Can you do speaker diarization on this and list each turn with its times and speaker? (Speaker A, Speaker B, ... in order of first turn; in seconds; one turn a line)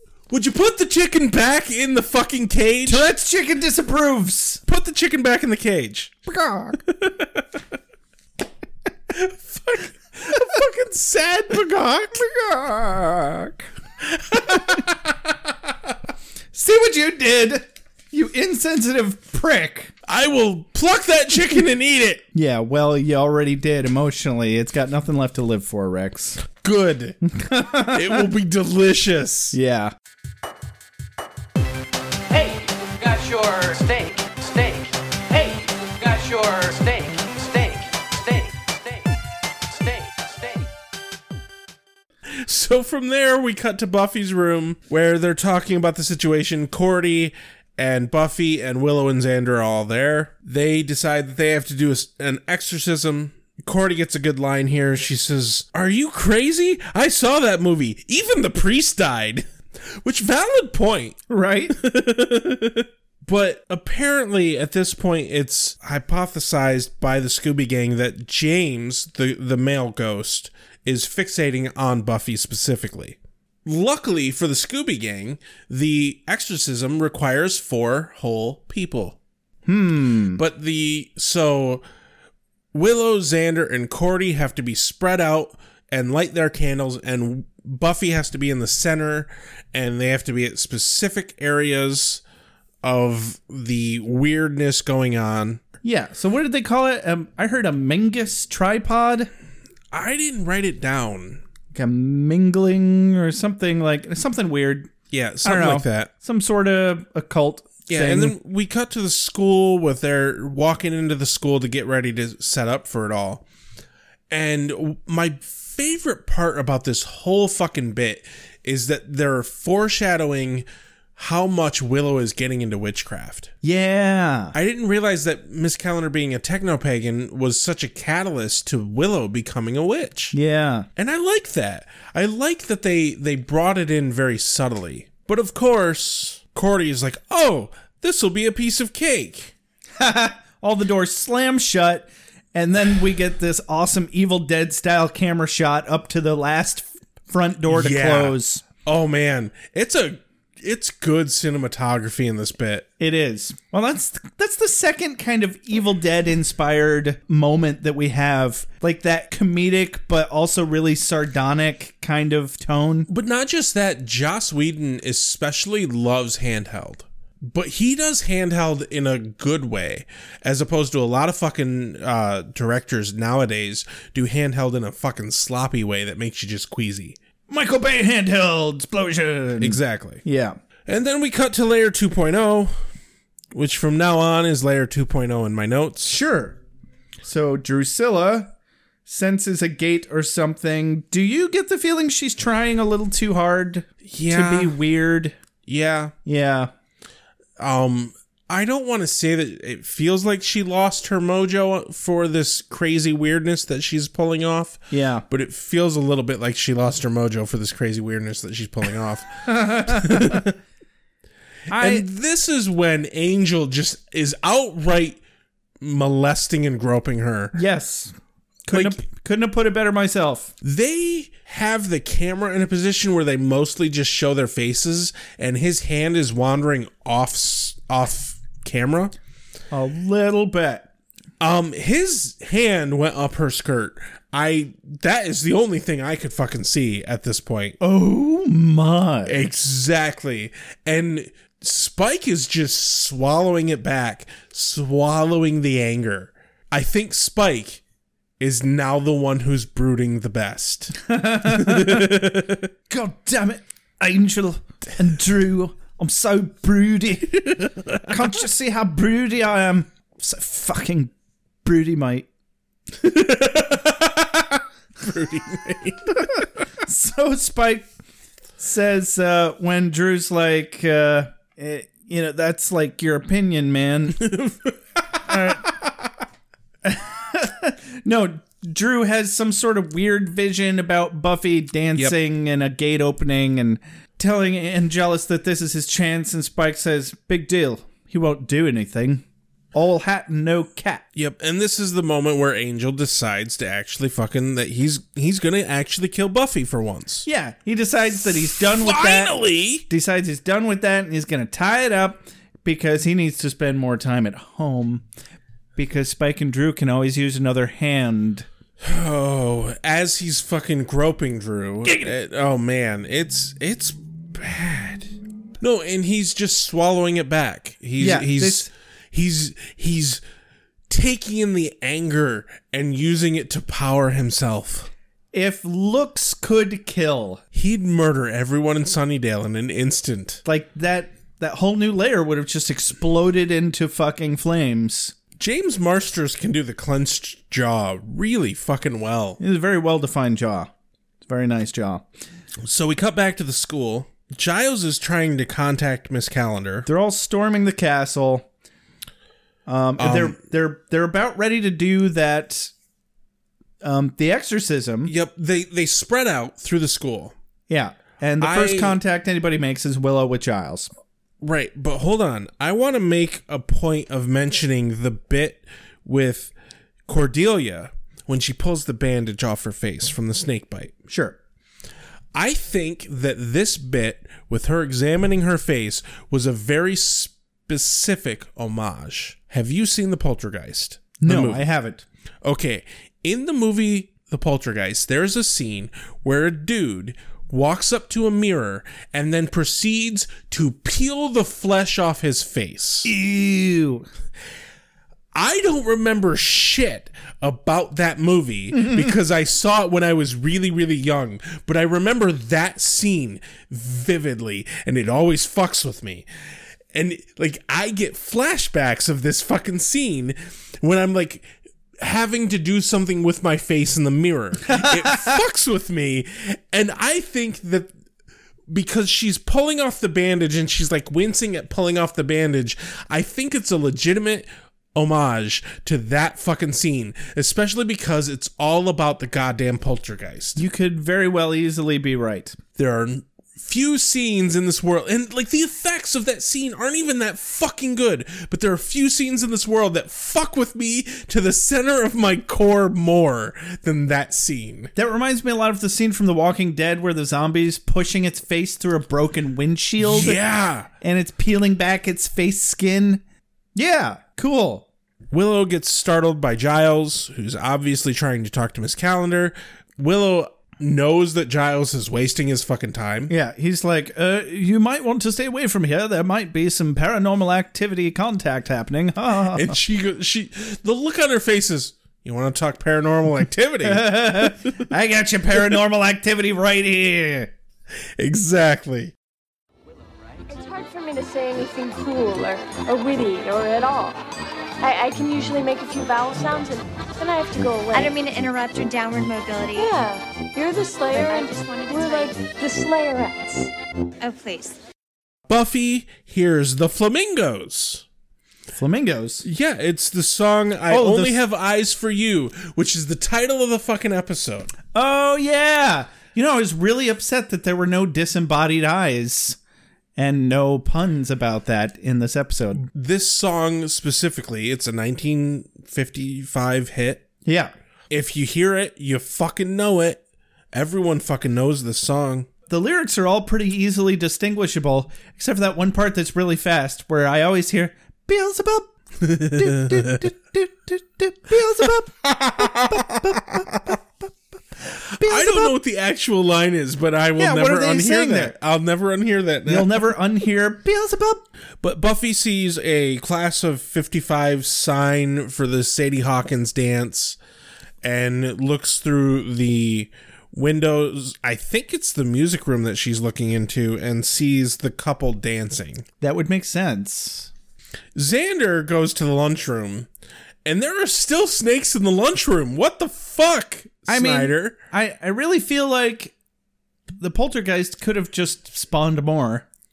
Speaker A: 0.3-3.1
Speaker B: 2.9-4.6
Speaker A: 4.7-6.2
Speaker B: 6.3-6.8
Speaker A: 6.8-7.5
Speaker A: 9.1-12.2
Speaker B: 12.2-13.7
Speaker A: 14.0-15.3
Speaker B: 16.5-19.9
Speaker A: 20.1-22.2
Speaker B: 22.3-26.4
Speaker A: 26.4-27.2
Speaker B: 27.2-28.3
Speaker A: 27.9-29.6
Speaker B: 29.5-29.9
Speaker C: 32.3-38.4
Speaker C: 39.9-40.6
Speaker A: 42.3-61.2
Speaker B: 61.3-61.8
Speaker A: 61.7-79.2
Speaker B: 79.7-80.4
Speaker A: 80.3-81.8
Speaker A: 82.7-92.2
Speaker A: 92.8-95.6
Speaker B: 95.8-99.3
Speaker A: 99.9-101.4
Speaker B: 101.7-104.9
Speaker A: 105.1-106.1
Speaker B: 105.4-108.3
Speaker A: 107.9-113.4
Speaker A: 114.3-123.5
Speaker B: 123.6-124.5
Speaker A: 124.5-130.3
Speaker B: 130.3-130.9
Speaker A: 130.9-139.5
Speaker B: 140.0-148.6
Speaker A: 147.7-152.9
Speaker B: 153.0-163.1
Speaker A: 163.1-177.2
Speaker B: 177.5-180.6
Speaker A: 179.6-180.2
Speaker A: 180.9-182.7
Speaker A: 183.5-186.2
Speaker B: 186.0-186.6
Speaker B: 187.2-188.5
Speaker B: 189.1-195.3
Speaker A: 194.0-194.8
Speaker A: 195.7-196.1
Speaker B: 196.2-196.7
Speaker A: 197.6-210.5
Speaker B: 204.9-205.2
Speaker B: 209.4-210.5
Speaker B: 211.7-212.0
Speaker A: 211.7-215.2
Speaker A: 215.8-217.6
Speaker B: 217.5-218.1
Speaker B: 218.7-220.5
Speaker A: 218.7-219.0
Speaker A: 220.6-229.1
Speaker B: 229.7-230.9
Speaker A: 231.4-237.8
Speaker B: 237.8-239.4
Speaker A: 239.2-247.8
Speaker A: 248.4-252.7
Speaker B: 251.0-252.2
Speaker B: 252.9-261.1
Speaker A: 257.4-258.1
Speaker B: 261.6-262.3
Speaker A: 263.0-266.4
Speaker B: 266.8-267.9
Speaker B: 268.6-274.2
Speaker A: 274.2-275.7
Speaker B: 275.2-275.7
Speaker B: 276.8-291.0
Speaker A: 291.1-297.3
Speaker B: 297.2-305.0
Speaker A: 298.2-299.9
Speaker B: 305.8-308.5
Speaker A: 308.8-320.2
Speaker B: 311.8-312.1
Speaker B: 318.0-318.7
Speaker A: 320.9-324.9
Speaker B: 325.3-327.4
Speaker A: 327.5-330.4
Speaker B: 330.4-335.1
Speaker A: 335.4-339.4
Speaker B: 339.4-340.7
Speaker B: 341.2-342.0
Speaker A: 342.6-346.9
Speaker B: 346.9-348.4
Speaker B: 349.7-352.7
Speaker A: 350.0-350.4
Speaker B: 353.8-355.1
Speaker A: 355.1-357.3
Speaker B: 357.7-360.9
Speaker A: 358.4-359.0
Speaker A: 361.4-366.5
Speaker A: 367.1-370.9
Speaker B: 371.1-371.4
Speaker A: 372.3-381.6
Speaker B: 381.2-382.0
Speaker A: 382.4-393.1
Speaker B: 393.0-394.1
Speaker A: 395.3-406.3
Speaker B: 398.7-399.1
Speaker A: 406.9-417.9
Speaker B: 414.7-415.3
Speaker A: 418.7-430.6
Speaker B: 430.6-432.6
Speaker A: 432.8-444.9
Speaker B: 444.9-450.4
Speaker A: 450.0-450.9
Speaker B: 451.0-453.2
Speaker B: 453.8-454.9
Speaker A: 455.3-463.3
Speaker B: 463.3-469.8
Speaker A: 469.5-474.7
Speaker B: 473.8-477.5
Speaker A: 478.2-479.1
Speaker D: 480.5-484.2
Speaker D: 484.8-488.2
Speaker E: 487.9-489.9
Speaker D: 489.7-493.7
Speaker E: 491.1-492.4
Speaker E: 494.2-494.8
Speaker A: 495.5-498.0
Speaker B: 498.7-499.4
Speaker A: 499.4-504.7
Speaker B: 500.9-501.4
Speaker B: 504.9-509.6
Speaker B: 510.2-512.8
Speaker A: 512.8-517.3
Speaker B: 517.4-517.7
Speaker A: 518.1-520.2
Speaker A: 520.7-522.5
Speaker B: 522.7-534.0
Speaker A: 529.2-530.2
Speaker A: 532.2-533.9
Speaker B: 535.1-535.7
Speaker A: 535.2-540.1
Speaker B: 537.4-538.5
Speaker B: 539.6-541.4
Speaker A: 541.8-547.4
Speaker A: 548.0-556.0
Speaker B: 556.2-557.5
Speaker A: 558.1-560.1
Speaker A: 560.6-564.8
Speaker B: 564.1-566.3
Speaker B: 567.2-569.6